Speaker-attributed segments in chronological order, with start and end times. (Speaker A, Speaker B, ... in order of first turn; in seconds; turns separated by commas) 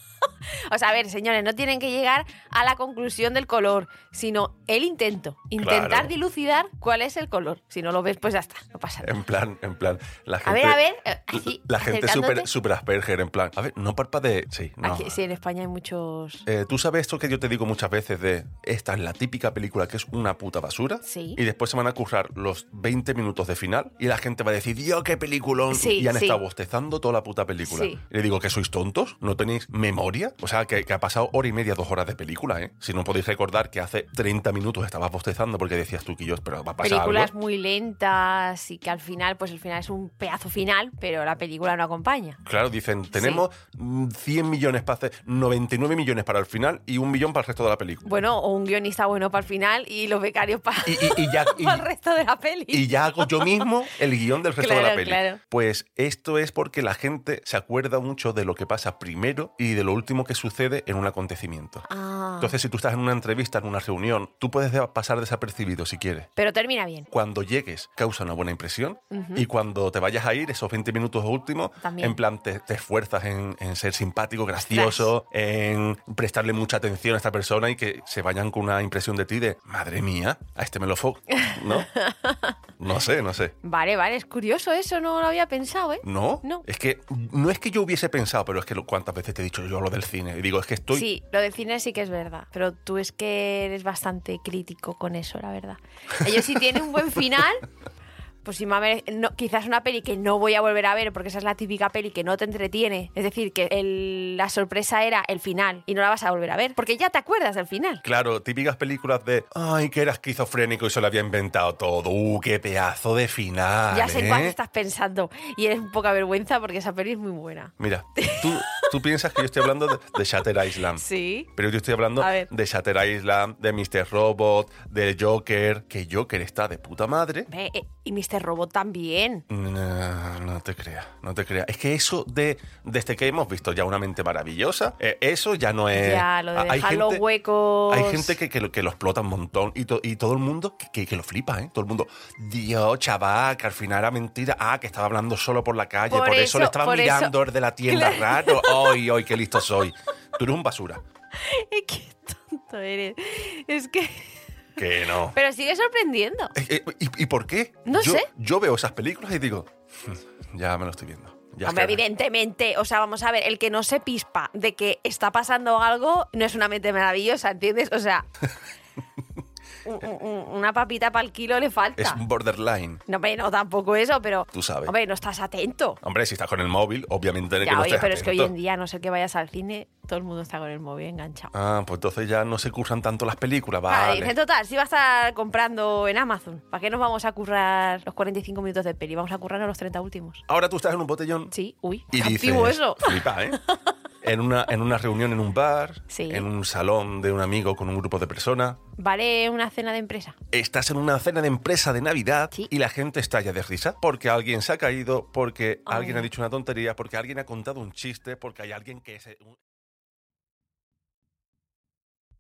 Speaker A: 0.7-9.2, Speaker B: 5.6-6.2, Speaker B: 9.0-15.2, Speaker A: 10.4-12.5, Speaker A: 14.8-16.4, Speaker B: 16.5-37.3, Speaker A: 21.0-21.4, Speaker A: 25.7-26.4, Speaker A: 27.6-28.0, Speaker A: 36.8-42.4, Speaker B: 42.5-48.1, Speaker A: 43.1-43.5, Speaker A: 48.0-53.7, Speaker B: 50.9-51.9, Speaker B: 52.7-61.9, Speaker A: 54.6-55.4, Speaker A: 61.9-62.6, Speaker B: 62.4-66.3, Speaker A: 66.4-67.1, Speaker B: 67.1-81.9, Speaker A: 69.1-69.5, Speaker A: 71.8-72.2, Speaker A: 74.7-75.1, Speaker A: 81.4-82.5, Speaker B: 82.8-83.5, Speaker A: 83.6-86.6, Speaker B: 86.0-91.1, Speaker A: 90.9-97.7, Speaker A: 98.4-108.0, Speaker B: 108.0-114.6, Speaker A: 113.9-119.6, Speaker B: 117.8-127.5, Speaker A: 120.9-121.5, Speaker A: 122.2-122.5, Speaker A: 127.5-129.4, Speaker B: 129.5-137.2, Speaker A: 135.9-138.4, Speaker B: 137.9-151.0, Speaker A: 146.1-149.0, Speaker A: 151.4-154.4, Speaker B: 154.8-155.3, Speaker A: 155.2-156.5, Speaker B: 156.6-162.0, Speaker A: 157.8-158.3, Speaker A: 161.6-168.3, Speaker A: 169.8-172.2, Speaker B: 172.0-173.0, Speaker A: 173.1-176.0, Speaker B: 174.5-174.9, Speaker B: 176.0-178.5, Speaker A: 177.6-181.5, Speaker B: 181.5-184.3, Speaker A: 183.9-190.4, Speaker B: 190.5-191.5, Speaker A: 191.5-193.8, Speaker B: 192.1-193.6, Speaker B: 194.2-198.8, Speaker A: 196.1-196.5, Speaker A: 199.0-200.4, Speaker B: 200.5-209.6, Speaker A: 205.9-206.3